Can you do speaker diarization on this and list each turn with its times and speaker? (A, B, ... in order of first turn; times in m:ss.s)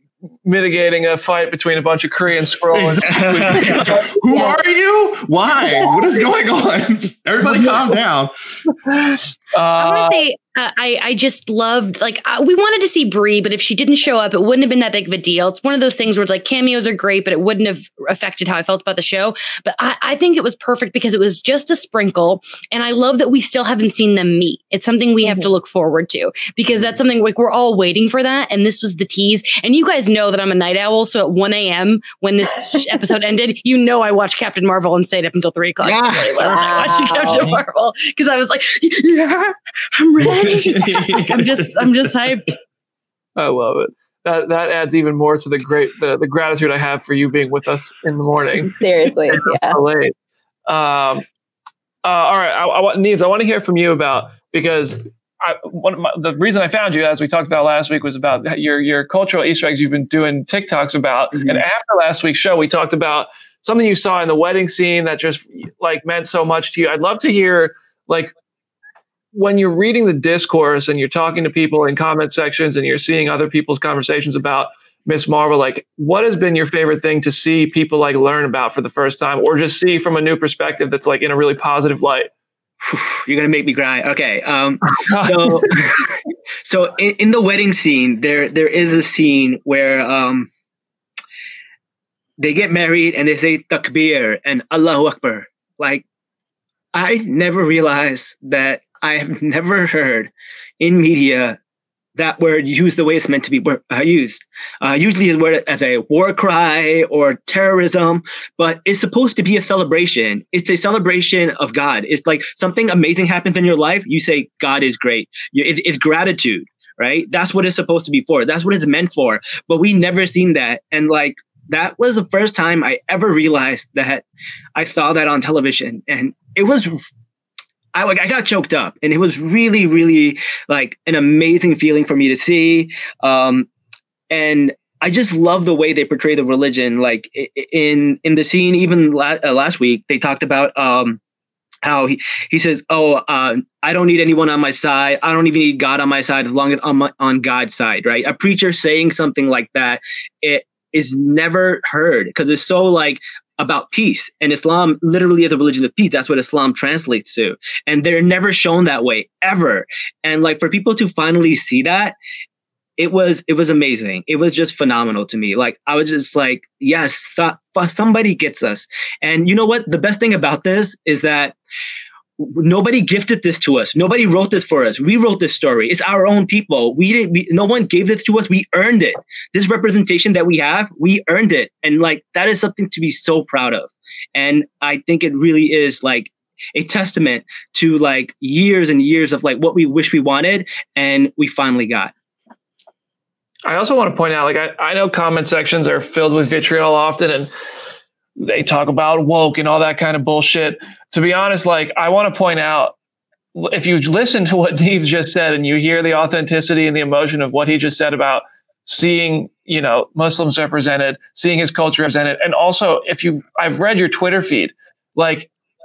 0:00.4-0:04.6 A
0:02.7-0:08.3 B
0:03.1-0:03.9 C
0:07.4-0:07.8 A
0:08.8-0:10.2 A
0:09.8-0:42.5 D
0:25.2-0:25.5 E
0:35.8-0:37.5 C
0:36.5-0:37.5 E
0:40.4-0:41.0 B
0:43.4-0:48.8 A
0:48.7-0:49.8 E
0:49.3-0:50.1 A
0:50.7-0:51.2 A
0:52.0-1:08.3 A
1:01.3-1:01.6 C
1:09.3-1:22.3 A
1:22.8-1:26.1 C
1:24.9-1:25.7 A
1:26.6-1:30.5 C
1:32.4-1:36.0 C
1:36.9-1:41.6 C
1:42.2-2:07.0 C
2:07.9-2:13.7 C
2:14.3-2:21.2 C
2:21.8-2:42.2 C
2:43.0-2:51.6 C
2:52.4-3:12.1 C
3:13.6-3:17.5 A
3:18.4-3:22.9 A
3:23.5-3:35.5 A